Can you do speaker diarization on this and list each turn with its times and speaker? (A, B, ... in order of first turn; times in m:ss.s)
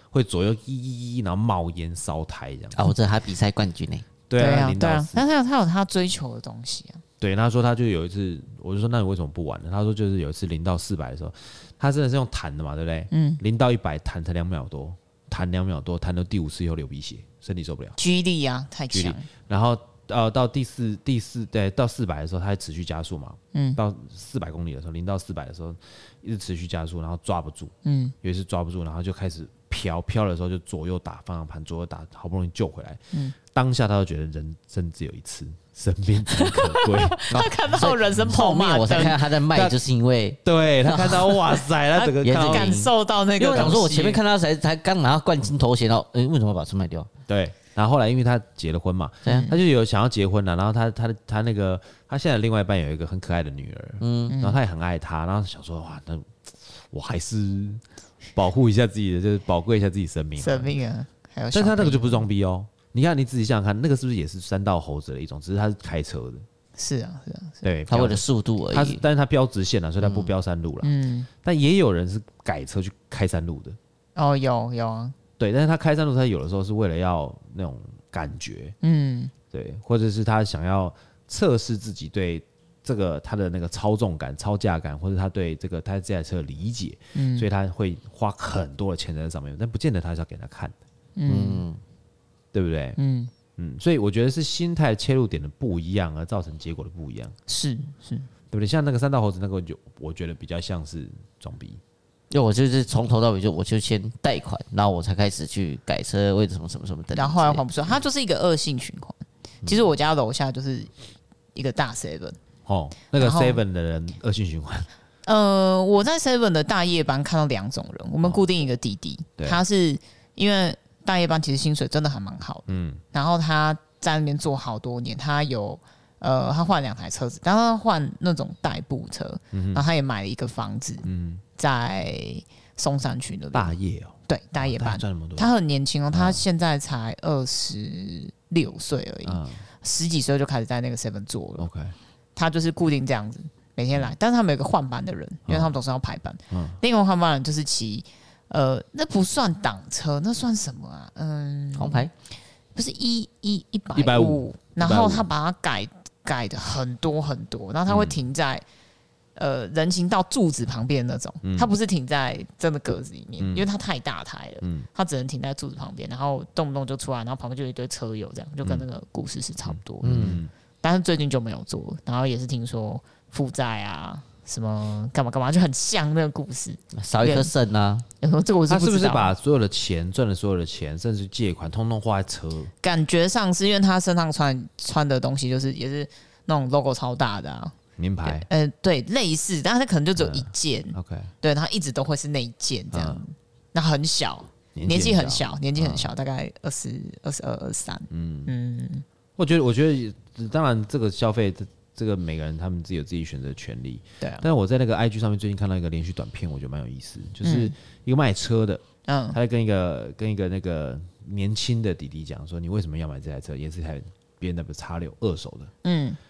0:00.1-0:02.8 A
0:02.8-0:04.0 B
0:04.3-0:05.2 A
0:04.4-0:07.0 C
0:07.2-0:18.0 A
0:13.1-0:13.4 C
0:18.0-0:19.2 C
0:18.9-0:37.2 A
0:23.5-0:23.8 C
0:27.8-0:28.1 C
0:36.3-0:39.2 C
0:37.3-0:41.2 B
0:39.5-0:39.8 A
0:40.4-0:42.8 A
0:41.0-0:44.2 C
0:42.2-0:47.1 B
0:47.3-0:57.8 A
0:49.3-0:49.6 C
0:54.0-0:54.4 B
0:54.3-0:54.6 C
0:58.3-1:00.7 A
1:00.4-1:02.2 C
1:01.5-1:06.4 A
1:06.8-1:07.7 C
1:07.6-1:10.9 A
1:07.9-1:09.0 B
1:10.0-1:10.3 B
1:10.8-1:11.3 C
1:11.4-1:13.8 A
1:14.2-1:15.1 C
1:15.4-1:18.8 A
1:18.8-1:19.3 C
1:19.5-1:30.7 A
1:27.1-1:27.5 C
1:31.2-1:31.6 C
1:31.3-1:31.8 B
1:32.5-1:33.0 A
1:33.0-1:33.3 C
1:33.6-1:37.4 A
1:37.5-1:38.3 C
1:38.5-1:41.8 A
1:42.3-1:47.6 B
1:47.1-1:50.9 C
1:51.5-1:52.4 C
1:52.6-1:54.9 A
1:53.2-1:53.6 C
1:55.2-2:11.0 C
1:59.4-1:59.6 A
2:02.7-2:03.0 A
2:09.5-2:09.8 A
2:11.0-2:11.4 A
2:11.6-2:13.7 C
2:13.5-2:15.5 A
2:14.3-2:21.7 C
2:16.1-2:16.4 A
2:19.2-2:19.6 A
2:21.6-2:21.9 A
2:22.4-2:32.1 C
2:25.5-2:25.8 A
2:26.5-2:26.8 A
2:31.7-2:32.1 B
2:32.7-2:38.6 C
2:33.9-2:35.3 A
2:37.9-2:38.2 A
2:39.4-2:57.5 C
2:41.4-2:41.7 A
2:43.4-2:43.7 A
2:44.6-2:44.9 A
2:49.6-2:50.5 A
2:50.0-2:50.4 B
2:56.9-2:58.0 B
2:58.2-2:59.3 C
2:58.7-3:02.7 A
3:02.8-3:19.0 C
3:08.0-3:08.5 A
3:10.2-3:11.3 A
3:12.9-3:13.2 A
3:14.7-3:16.1 A
3:18.1-3:18.5 A
3:19.4-3:28.8 A
3:27.4-3:27.7 C
3:29.1-3:29.4 C
3:29.3-3:35.7 A
3:35.8-3:36.2 C